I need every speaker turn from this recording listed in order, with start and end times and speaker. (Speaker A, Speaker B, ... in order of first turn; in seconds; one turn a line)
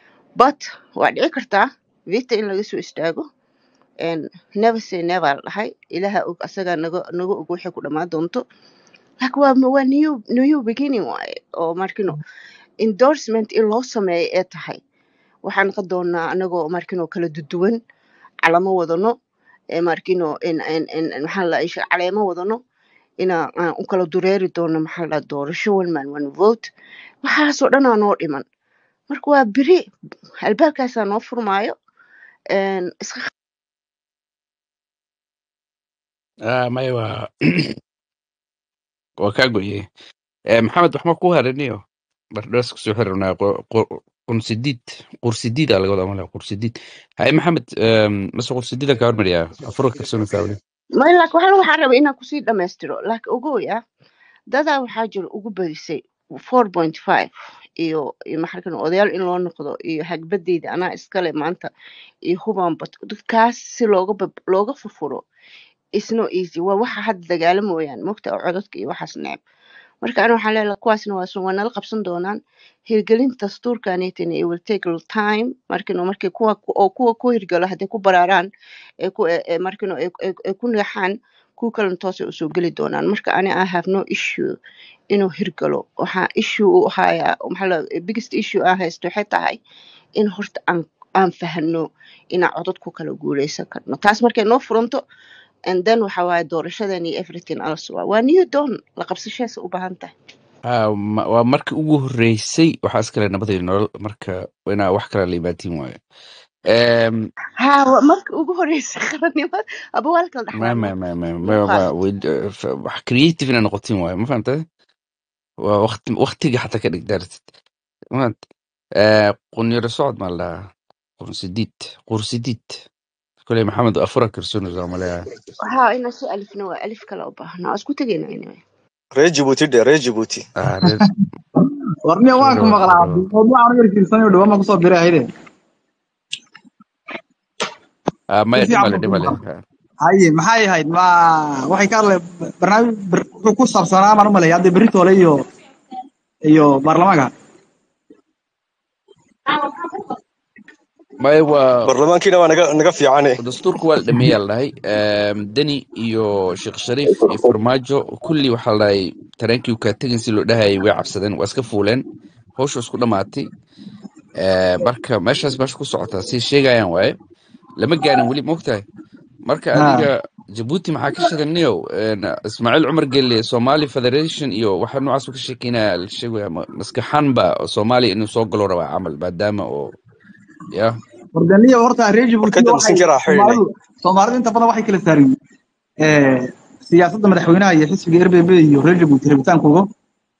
Speaker A: 0.4-3.2
Speaker A: 4.0-8.4
Speaker A: 9.2-12.2
Speaker A: 12.8-14.8
Speaker A: 15.4-17.8
Speaker A: 18.4-19.1
Speaker A: 19.7-22.6
Speaker A: 23.2-26.7
Speaker A: 27.2-28.4
Speaker A: 29.1-29.8
Speaker A: 30.4-31.7
Speaker A: 32.5-33.3
Speaker B: 36.5-37.8
Speaker B: 39.2-39.9
Speaker B: 40.5-41.8
Speaker B: 42.4-50.6
Speaker A: 51.0-53.8
Speaker A: 54.5-61.7
Speaker A: 62.3-65.2
Speaker A: 66.0-69.4
Speaker A: 70.0-78.5
Speaker A: 79.0-84.5
Speaker A: 85.1-89.6
Speaker A: 90.2-95.0
Speaker A: 95.7-100.1
Speaker B: 100.7-106.0
Speaker B: 106.7-107.3
Speaker A: 107.6-110.9
Speaker B: 110.5-114.6
Speaker A: 111.4-111.9
Speaker B: 115.6-117.4
Speaker B: 119.0-120.6
Speaker B: 121.2-122.7
Speaker B: 123.4-125.3
Speaker A: 125.6-128.6
Speaker C: 129.2-130.4
Speaker B: 130.6-131.1
Speaker D: 130.8-131.1
Speaker D: 132.1-135.2
Speaker B: 132.4-133.3
Speaker B: 138.3-139.6
Speaker D: 138.6-139.4
Speaker D: 140.0-145.4
Speaker D: 146.5-147.3
Speaker B: 151.2-151.9
Speaker C: 151.8-153.4
Speaker B: 153.4-162.1
Speaker B: 162.6-163.5
Speaker B: 164.4-167.2
Speaker B: 167.8-168.8
Speaker B: 169.5-179.9
Speaker D: 169.7-170.1
Speaker B: 180.7-181.0
Speaker D: 181.3-185.3
Speaker C: 182.4-183.6
Speaker D: 186.0-189.9